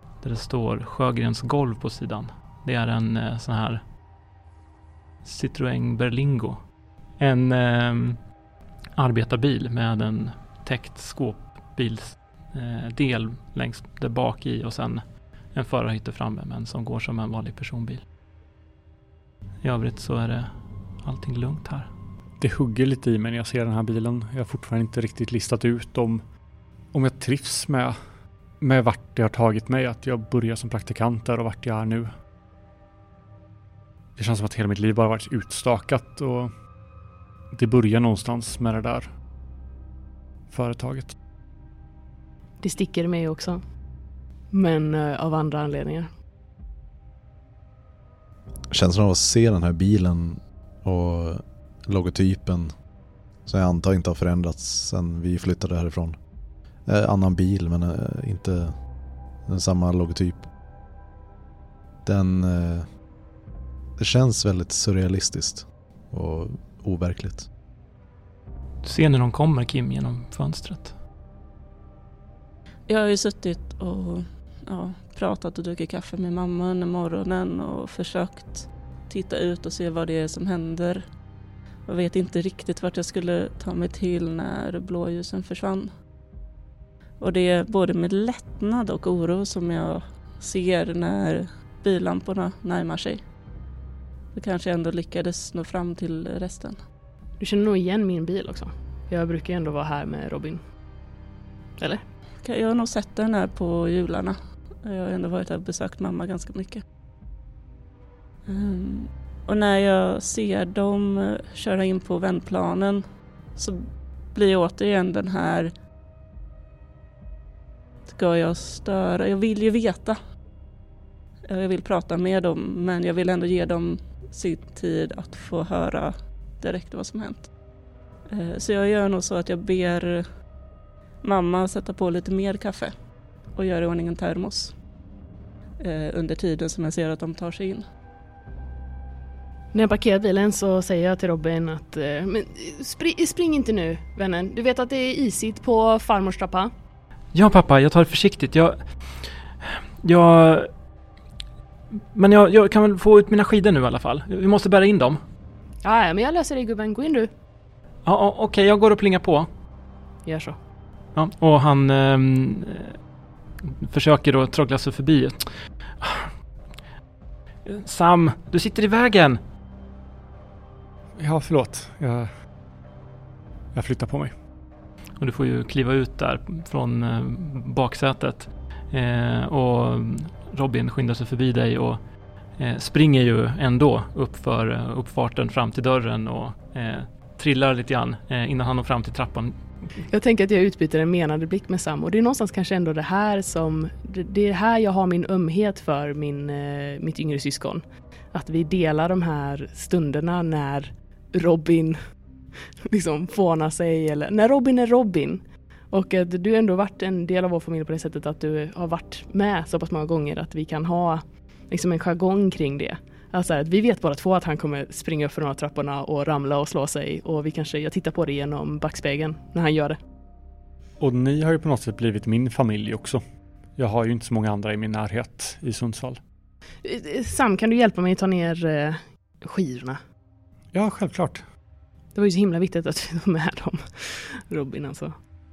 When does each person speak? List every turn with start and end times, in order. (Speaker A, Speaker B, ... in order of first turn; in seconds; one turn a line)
Speaker A: 0.2-3.8
Speaker A: 5.2-8.3
Speaker A: 9.0-18.0
Speaker A: 19.6-21.9
Speaker B: 22.4-26.3
Speaker B: 26.9-28.0
Speaker B: 28.6-32.1
Speaker B: 34.2-36.5
Speaker B: 37.5-39.1
Speaker B: 40.5-41.1
Speaker C: 42.6-43.7
Speaker C: 44.5-46.1
Speaker D: 48.7-52.7
Speaker D: 53.5-56.2
Speaker D: 56.9-58.9
Speaker D: 59.5-60.5
Speaker D: 62.0-63.0
Speaker D: 64.0-67.5
Speaker A: 68.8-71.0
Speaker E: 72.9-81.0
Speaker E: 81.9-85.9
Speaker E: 87.2-93.2
Speaker E: 94.3-96.8
Speaker C: 97.4-100.6
Speaker E: 102.4-106.8
Speaker E: 108.5-115.7
Speaker E: 118.1-120.2
Speaker E: 121.5-127.5
Speaker E: 128.3-130.4
Speaker E: 131.2-134.8
Speaker E: 135.8-137.8
Speaker C: 139.7-146.7
Speaker A: 147.3-149.3
Speaker A: 150.0-150.7
Speaker A: 152.1-155.2
Speaker C: 155.8-157.3
Speaker A: 158.0-159.5
Speaker C: 160.2-160.6
Speaker A: 161.1-163.0
Speaker A: 163.6-166.3
Speaker A: 167.7-169.4
Speaker B: 171.2-172.4
Speaker B: 173.7-174.3
Speaker A: 175.2-189.8
Speaker C: 190.1-202.2
Speaker C: 202.8-220.0
Speaker B: 221.0-223.2
Speaker B: 223.8-226.2
Speaker C: 226.8-230.0
Speaker B: 230.7-231.4
Speaker C: 232.1-235.2